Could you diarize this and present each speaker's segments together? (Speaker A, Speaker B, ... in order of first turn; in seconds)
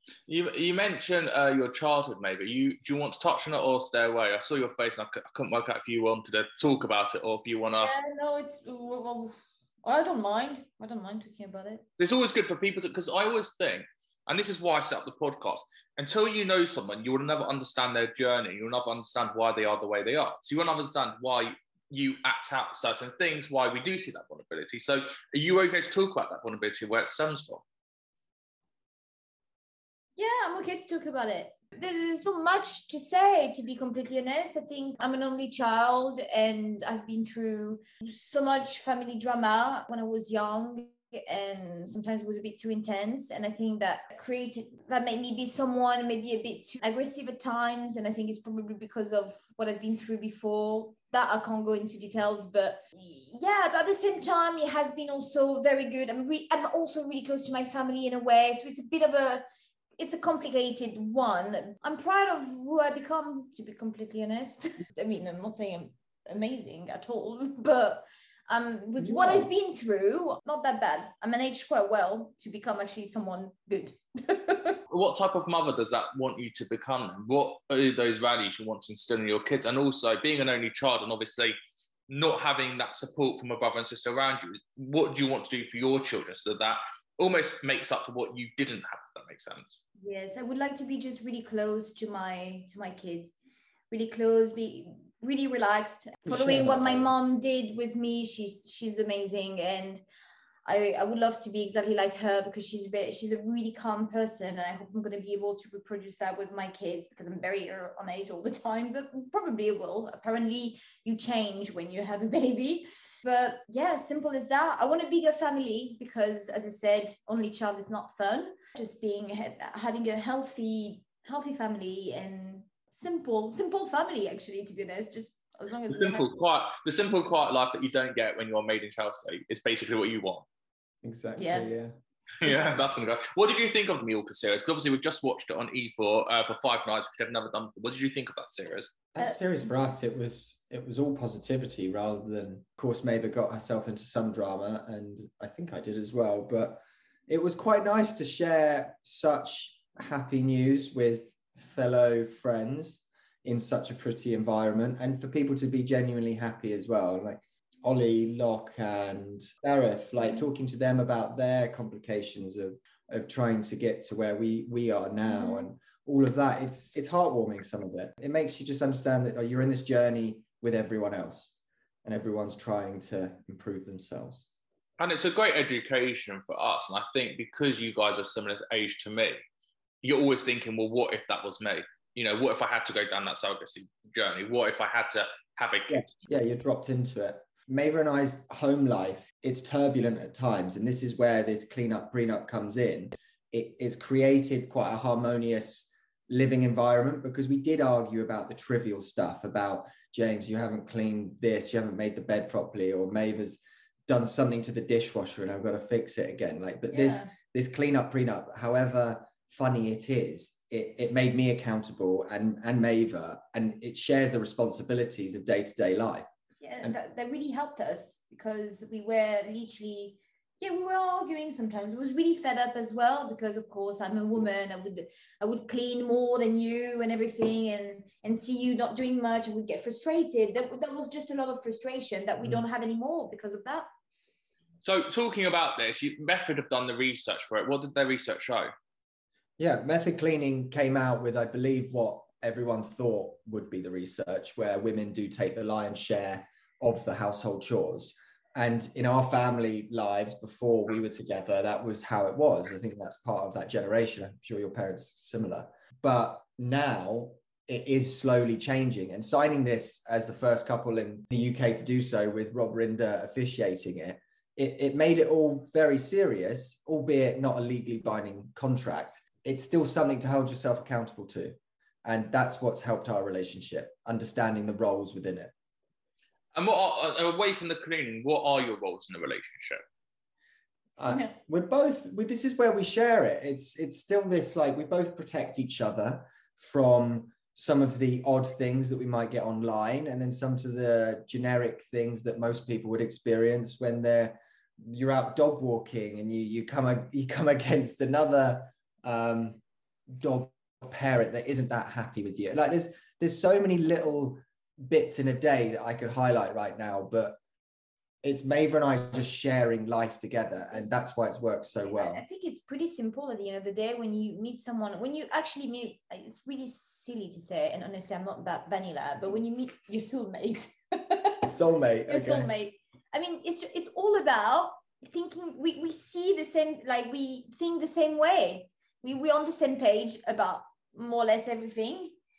Speaker A: 0.3-7.9, 12.0-27.6, 74.9-81.6, 82.1-89.8, 125.9-130.4, 132.4-138.9, 175.0-179.4, 180.0-186.1, 234.8-238.7, 276.5-279.8
Speaker B: 7.8-11.8, 30.2-59.4, 60.0-74.8, 90.0-93.3, 93.9-100.0, 100.7-126.2, 131.4-131.7, 165.3-165.7, 206.9-207.3, 216.6-233.9, 281.1-281.3, 311.9-321.4, 322.1-332.1
Speaker C: 69.0-69.5, 96.2-97.1, 131.0-131.9, 139.1-174.5, 185.9-216.3, 239.6-275.5, 281.0-307.4, 308.2-312.2, 321.4-322.5